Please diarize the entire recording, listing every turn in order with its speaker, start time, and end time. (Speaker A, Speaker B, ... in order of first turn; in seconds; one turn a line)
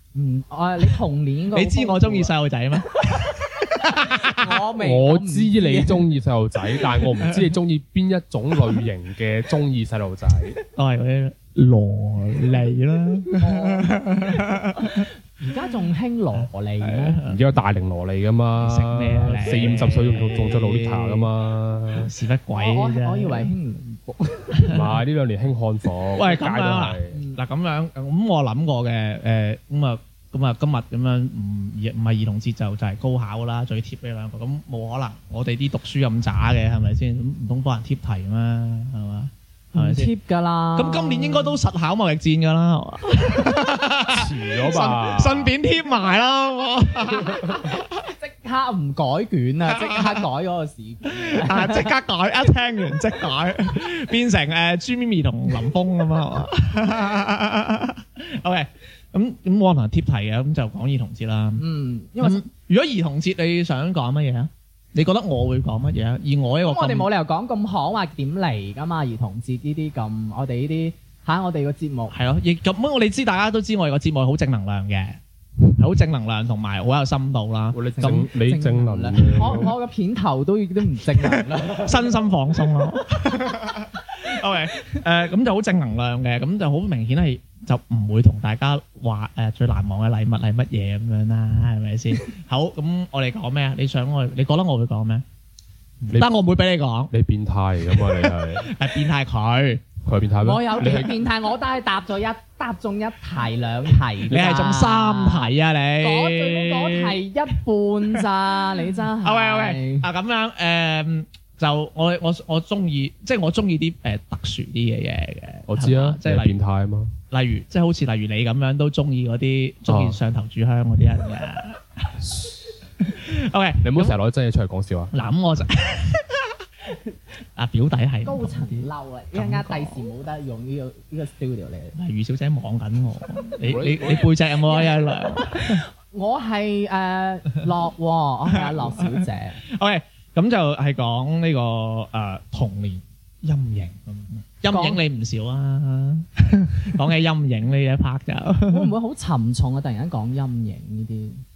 Speaker A: 0.1-2.3
Speaker B: 1.5-4.7
Speaker A: 2.9-6.0
Speaker C: 4.8-10.6
Speaker B: 7.1-7.5
Speaker B: 10.7-15.1
Speaker A: 13.4-17.2
Speaker B: 16.3-17.4
Speaker C: 17.2-22.1
Speaker B: 18.6-21.3
Speaker B: 21.9-23.5
Speaker A: 22.6-24.7
Speaker B: 24.6-24.9
Speaker C: 24.7-27.2
Speaker B: 26.1-40.1
Speaker A: 27.1-27.4
Speaker A: 39.8-41.6
Speaker B: 40.8-47.8
Speaker C: 44.1-45.5
Speaker A: 47.4-51.9
Speaker B: 49.9-50.2
Speaker B: 51.1-61.6
Speaker A: 61.6-62.4
Speaker B: 62.2-67.1
Speaker A: 66.7-72.2
Speaker B: 72.1-78.3
Speaker C: 77.7-79.7
Speaker A: 78.0-82.2
Speaker B: 81.2-95.2
Speaker B: 96.0-97.1
Speaker C: 97.1-98.7
Speaker B: 97.9-99.8
Speaker C: 100.0-101.1
Speaker A: 100.4-110.1
Speaker B: 104.3-107.2
Speaker B: 108.1-116.6
Speaker C: 115.7-117.2
Speaker B: 117.3-124.2
Speaker C: 119.9-120.2
Speaker C: 123.8-125.1
Speaker B: 125.1-126.5
Speaker B: 127.6-130.1
Speaker A: 128.2-132.0
Speaker B: 132.0-135.8
Speaker C: 133.6-134.3
Speaker A: 134.6-139.6
Speaker B: 138.6-148.9
Speaker A: 144.7-145.0
Speaker A: 148.7-151.4